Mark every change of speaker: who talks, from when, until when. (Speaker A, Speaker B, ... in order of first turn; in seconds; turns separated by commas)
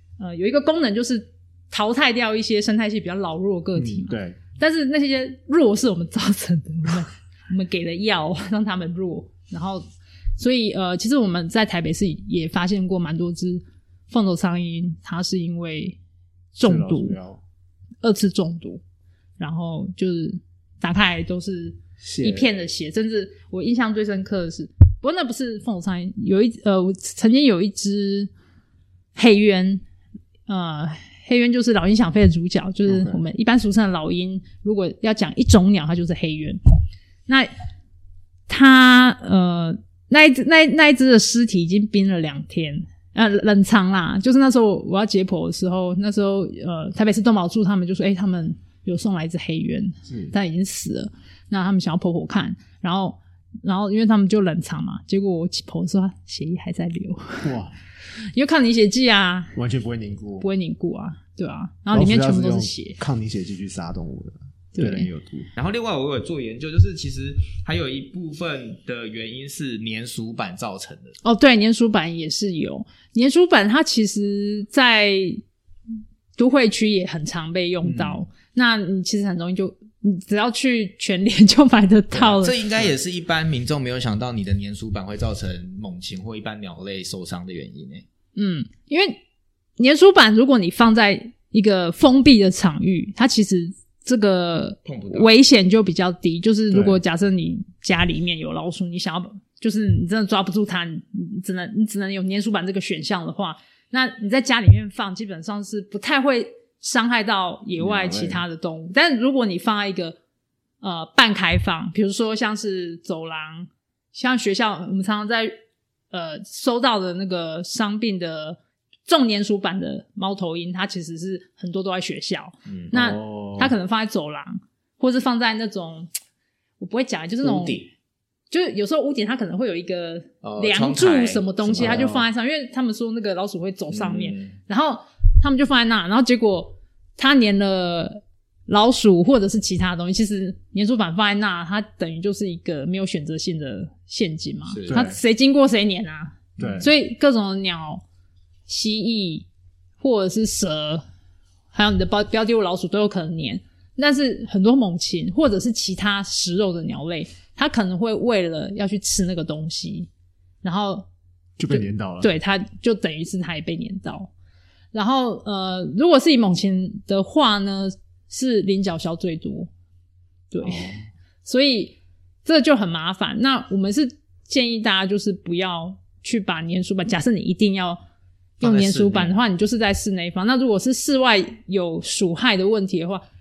Speaker A: 0.2-9.8, Speaker B: 3.8-4.4, Speaker A: 10.4-16.0, Speaker A: 16.5-17.2, Speaker B: 16.6-17.4, Speaker A: 18.0-18.8, Speaker A: 19.4-28.3, Speaker B: 22.0-22.5, Speaker A: 29.1-29.8, Speaker A: 30.5-36.6, Speaker B: 32.9-33.2, Speaker A: 38.5-57.5, Speaker B: 50.1-50.3, Speaker B: 57.4-57.7, Speaker A: 58.3-59.5, Speaker B: 59.5-60.5, Speaker A: 60.4-63.0, Speaker B: 61.9-65.5, Speaker A: 64.7-65.1, Speaker C: 65.5-71.2, Speaker A: 71.2-75.4, Speaker A: 76.3-82.6, Speaker C: 77.8-78.2, Speaker C: 82.1-88.0, Speaker A: 88.3-89.2, Speaker A: 89.8-110.2, Speaker C: 94.8-95.3, Speaker B: 96.7-97.0, Speaker B: 107.8-108.4, Speaker A: 110.8-115.5, Speaker A: 116.1-126.1, Speaker C: 122.7-122.9, Speaker B: 122.9-123.7, Speaker A: 126.8-127.8, Speaker C: 127.4-127.9, Speaker A: 128.5-148.0, Speaker C: 130.4-132.1, Speaker B: 131.8-132.2, Speaker C: 133.9-134.6, Speaker C: 144.7-145.0, Speaker B: 144.9-145.2, Speaker C: 146.6-146.9, Speaker B: 146.6-146.9, Speaker A: 148.7-149.5, Speaker A: 150.0-151.0, Speaker A: 151.7-160.1, Speaker A: 160.6-161.1, Speaker B: 161.6-162.3, Speaker A: 161.7-164.3, Speaker A: 164.9-169.7, Speaker A: 170.5-170.9, Speaker B: 170.7-170.9, Speaker A: 171.4-178.0, Speaker A: 178.6-183.2, Speaker C: 178.6-179.3